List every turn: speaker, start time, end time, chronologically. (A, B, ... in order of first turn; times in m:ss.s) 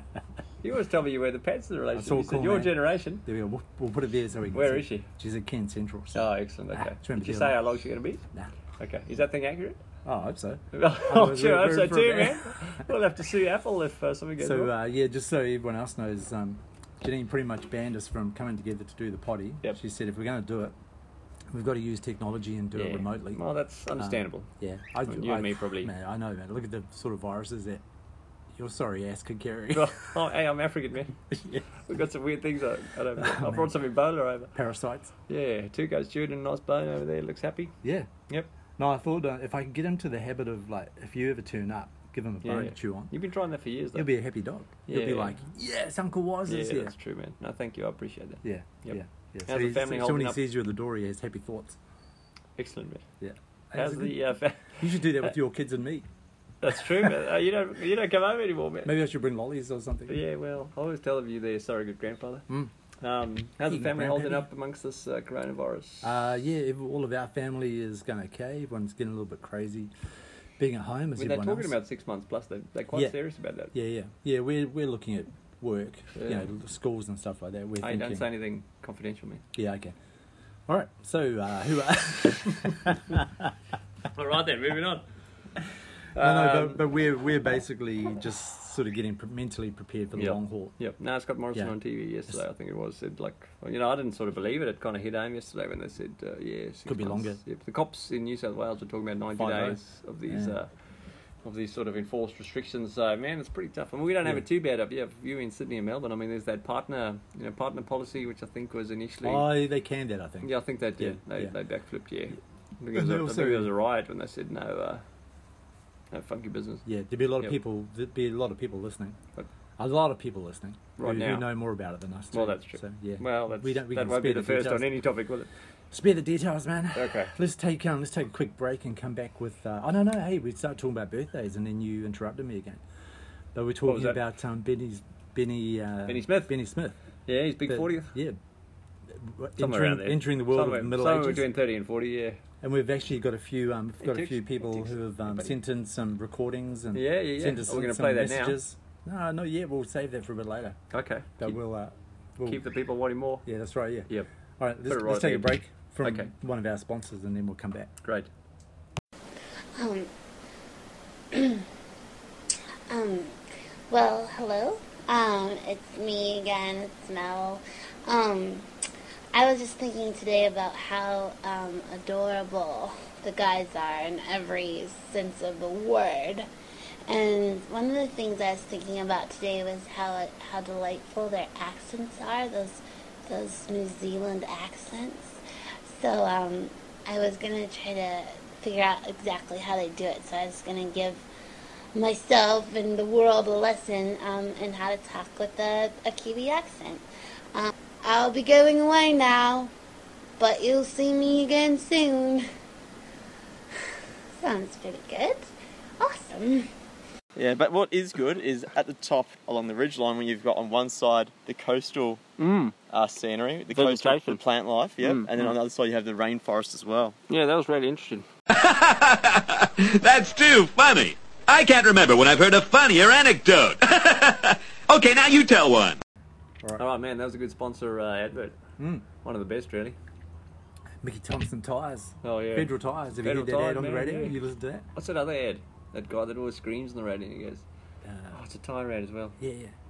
0:00.6-0:03.2 A
0:02.0-0:06.2 B
0:04.5-0:05.1 A
0:06.1-0:08.2 A
0:06.7-0:07.6 B
0:08.8-0:09.8 A
0:10.0-0:12.4 B
0:10.7-0:14.7 A
0:14.4-0:20.8 B
0:21.5-0:23.4 B
0:22.8-0:24.5 A
0:24.0-0:27.8 B
0:25.1-0:25.9 A
0:28.6-0:30.1 B
0:29.7-0:31.2 A
0:31.3-0:31.6 B
0:31.8-0:34.5 A
0:33.2-0:33.7 B
0:34.6-0:35.1 B
0:35.3-0:37.7 A
0:37.8-0:38.1 B
0:38.8-0:43.1 B
0:42.4-0:44.1 A
0:44.0-0:46.9 B
0:44.9-0:45.4 A
0:46.5-0:50.4 A
0:48.4-0:51.8 B
0:52.6-0:53.0 A
0:53.2-0:54.2 B
0:53.8-0:55.3 A
0:54.8-0:56.1 B
0:56.6-0:58.9 A
0:58.8-1:00.2 B
1:00.1-1:02.5 A
1:03.0-1:06.1 A
1:03.7-1:04.4 B
1:06.0-1:09.9 B
1:10.6-1:11.8 B
1:11.2-1:13.7 A
1:13.7-1:18.3 B
1:16.2-1:16.5 A
1:17.8-1:19.4 A
1:19.5-1:20.0 B
1:20.7-1:23.5 B
1:24.1-1:25.0 A
1:26.2-1:26.8 A
1:26.2-1:30.8 B
1:30.2-1:40.7 A
1:36.9-1:37.4 B
1:39.4-1:40.6 B
1:41.4-1:49.5 A
1:49.2-1:51.5 B
1:50.4-1:55.0 A
1:53.0-1:53.7 B
1:56.1-1:56.8 A
1:56.8-1:59.2 B
1:59.8-2:05.0 B
2:01.0-2:01.5 A
2:02.3-2:05.5 A
2:05.9-2:12.8 B
2:07.0-2:07.3 A
2:13.5-2:17.0 B
2:13.9-2:14.2 A
2:16.1-2:16.5 A
2:17.3-2:18.1 A
2:17.7-2:18.4 B
2:19.1-2:21.5 B
2:19.6-2:22.4 A
2:22.6-2:30.8 B
2:24.0-2:25.5 A
2:26.9-2:28.6 A
2:30.9-2:31.6 A
2:31.4-2:32.6 B
2:32.4-2:33.4 A
2:33.4-2:34.1 B
2:34.6-2:37.9 B
2:34.9-2:36.3 A
2:39.8-2:40.1 C
2:41.3-2:41.7 C
2:42.9-2:43.4 C
2:43.9-2:48.7 C
2:49.3-2:56.5 C
2:57.1-3:11.3 C
3:12.0-3:19.7 C
3:20.4-3:22.4 C
3:24.4-3:26.7 C
3:27.4-3:32.2 D
3:32.4-3:32.7 A
3:32.9-3:37.2 D
3:33.7-3:34.4 A
3:35.0-3:35.5 A
3:37.3-3:38.2 A
3:38.5-3:46.0 E
3:46.8-3:48.6 A
3:48.8-3:49.0 B
3:49.2-3:50.0 A
3:51.0-3:54.9 B
3:52.2-3:54.4 A
3:55.0-3:57.6 A
3:58.0-3:58.4 B
3:58.3-3:59.4 A
3:59.4-3:59.7 B